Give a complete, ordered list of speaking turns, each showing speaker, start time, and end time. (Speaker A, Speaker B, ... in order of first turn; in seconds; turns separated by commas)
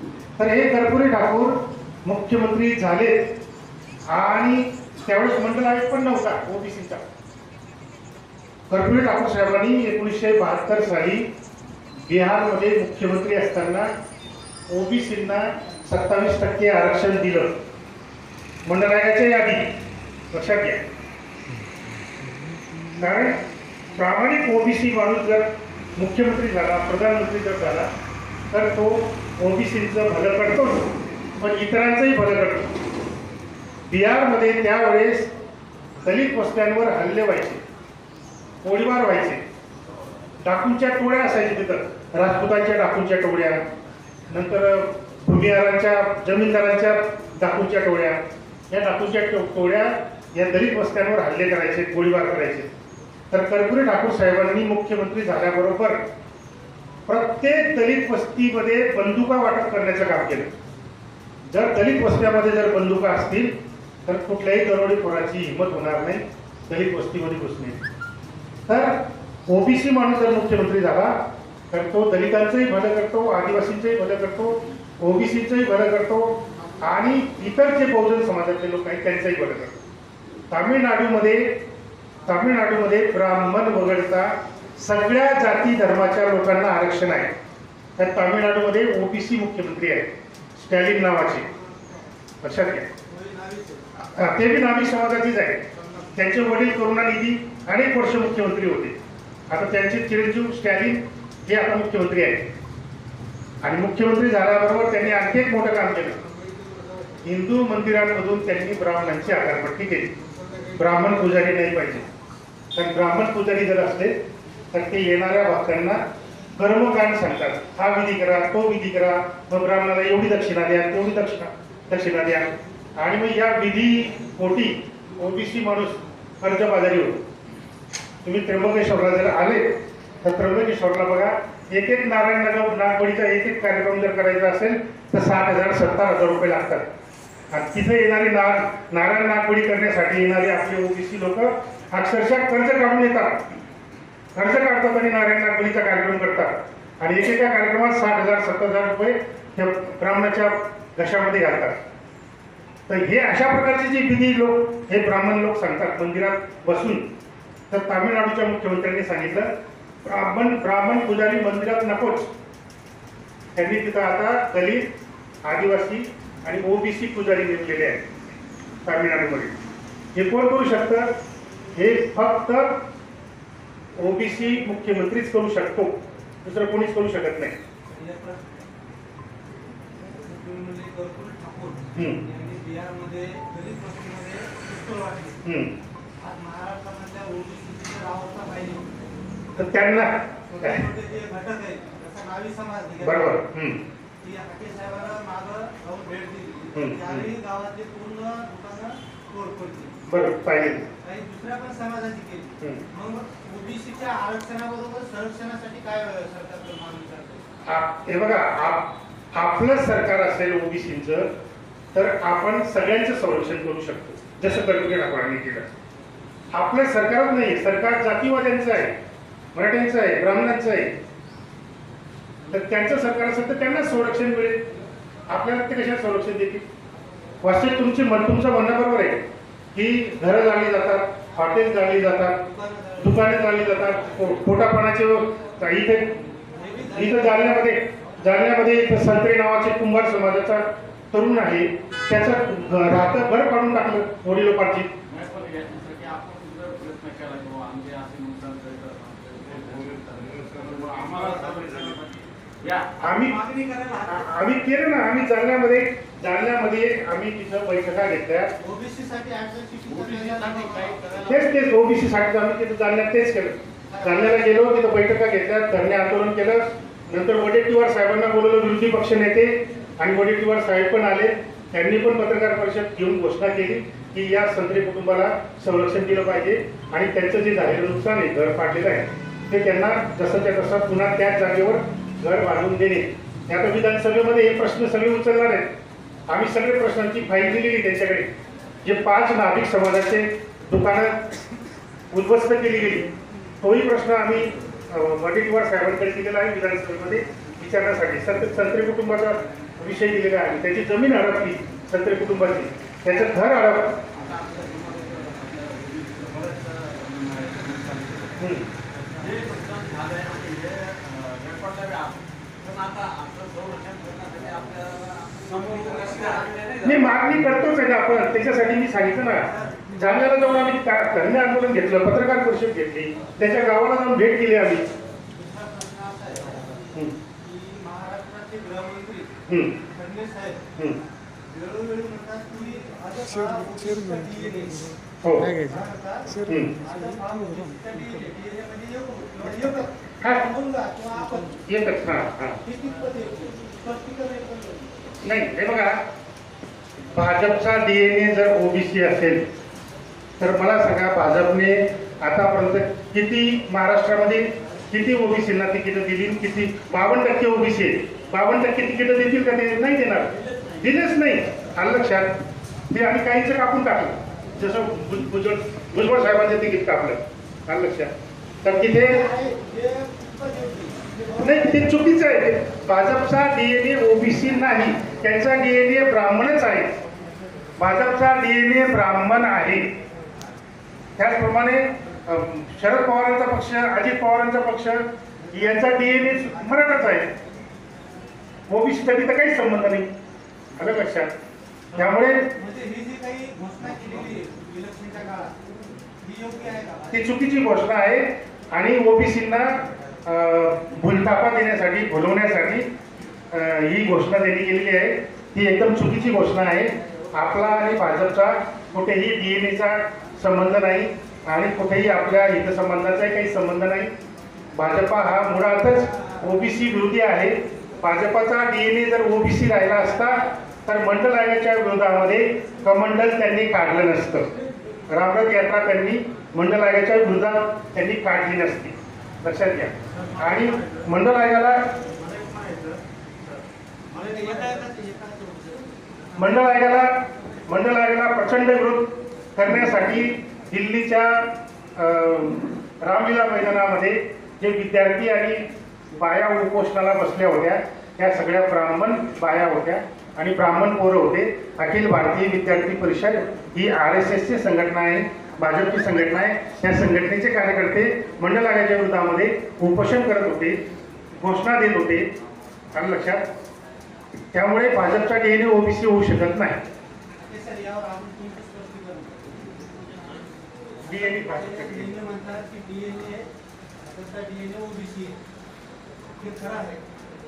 Speaker A: 0.4-3.3, Speaker A: 4.1-7.0, Speaker A: 8.7-11.2, Speaker A: 12.1-13.9, Speaker A: 14.7-17.6, Speaker A: 18.6-19.7, Speaker A: 20.3-20.8, Speaker A: 23.0-23.4, Speaker A: 23.9-27.9, Speaker A: 28.5-30.9, Speaker A: 31.4-32.7, Speaker A: 33.9-35.3, Speaker A: 36.0-37.6, Speaker A: 38.6-39.4, Speaker A: 40.4-43.6, Speaker A: 44.3-52.7, Speaker A: 53.3-56.0, Speaker A: 57.1-60.5, Speaker A: 61.5-63.5, Speaker A: 64.0-67.8, Speaker A: 68.7-71.1, Speaker A: 71.7-79.8, Speaker A: 80.5-81.6, Speaker A: 82.2-87.3, Speaker A: 88.0-91.5, Speaker B: 91.3-92.1, Speaker A: 92.4-92.9, Speaker B: 93.0-93.9, Speaker A: 94.0-99.0, Speaker A: 99.5-102.5, Speaker A: 103.6-106.2, Speaker B: 106.3-107.1, Speaker A: 107.2-110.2, Speaker B: 110.3-110.9, Speaker A: 110.7-112.1, Speaker A: 112.7-114.1, Speaker A: 114.7-116.0, Speaker A: 116.5-127.2, Speaker A: 128.2-136.9, Speaker A: 137.5-143.4, Speaker A: 144.3-151.8, Speaker A: 152.9-157.1, Speaker A: 157.7-159.5, Speaker A: 160.0-162.3, Speaker A: 163.6-164.9, Speaker A: 165.4-168.1, Speaker A: 168.8-169.5, Speaker A: 170.1-171.1, Speaker A: 171.7-172.8, Speaker A: 174.0-175.9, Speaker A: 176.4-177.5, Speaker B: 177.9-178.7, Speaker B: 180.2-185.4, Speaker A: 181.9-182.2, Speaker A: 185.4-185.8, Speaker B: 186.2-188.9, Speaker A: 189.6-190.8, Speaker B: 190.5-193.4, Speaker A: 193.0-193.8, Speaker B: 194.2-199.9, Speaker A: 196.7-197.3, Speaker A: 200.1-200.9, Speaker B: 201.0-207.5, Speaker A: 207.7-211.3, Speaker A: 211.9-215.7, Speaker A: 216.5-218.9, Speaker A: 219.5-220.9, Speaker A: 222.5-224.6, Speaker A: 225.3-226.6, Speaker A: 227.4-229.2, Speaker A: 229.7-232.4, Speaker B: 232.4-234.3, Speaker A: 233.0-236.2, Speaker B: 236.5-237.8, Speaker A: 236.9-244.9, Speaker C: 245.1-252.9, Speaker B: 251.2-251.9, Speaker A: 253.0-253.4, Speaker B: 253.1-254.3, Speaker A: 254.1-258.5, Speaker B: 258.6-261.4, Speaker C: 259.9-261.4, Speaker A: 261.2-285.7, Speaker B: 263.9-264.5, Speaker A: 286.3-288.3, Speaker A: 288.8-291.2, Speaker A: 292.1-293.1, Speaker A: 293.6-304.0, Speaker C: 304.1-317.2, Speaker A: 308.4-308.7, Speaker B: 315.4-316.8, Speaker A: 316.8-324.8, Speaker B: 319.3-319.9, Speaker B: 325.3-329.3, Speaker A: 329.5-329.8, Speaker B: 329.8-330.6, Speaker B: 331.5-334.9, Speaker A: 335.2-335.6, Speaker B: 335.6-341.6, Speaker A: 336.4-336.8, Speaker A: 340.2-340.4, Speaker A: 341.7-342.6, Speaker B: 342.6-345.0, Speaker A: 345.2-346.0, Speaker A: 347.1-349.5, Speaker A: 350.4-368.1, Speaker B: 360.4-360.7, Speaker A: 368.6-369.3, Speaker B: 368.9-371.9, Speaker A: 371.4-376.9, Speaker A: 377.8-379.9, Speaker A: 381.2-387.3, Speaker B: 385.4-387.3, Speaker A: 388.7-390.1, Speaker A: 390.8-391.3, Speaker A: 391.9-392.5, Speaker B: 391.9-397.3, Speaker A: 397.1-402.9, Speaker A: 403.5-414.1, Speaker A: 414.7-424.5, Speaker A: 425.1-431.8, Speaker C: 432.2-434.8, Speaker B: 434.1-437.0, Speaker A: 436.4-460.8, Speaker A: 461.4-462.3, Speaker A: 462.9-463.5, Speaker A: 464.5-466.8, Speaker B: 467.4-470.4, Speaker B: 471.0-473.5, Speaker A: 471.0-472.2, Speaker B: 474.0-475.4, Speaker B: 476.4-477.1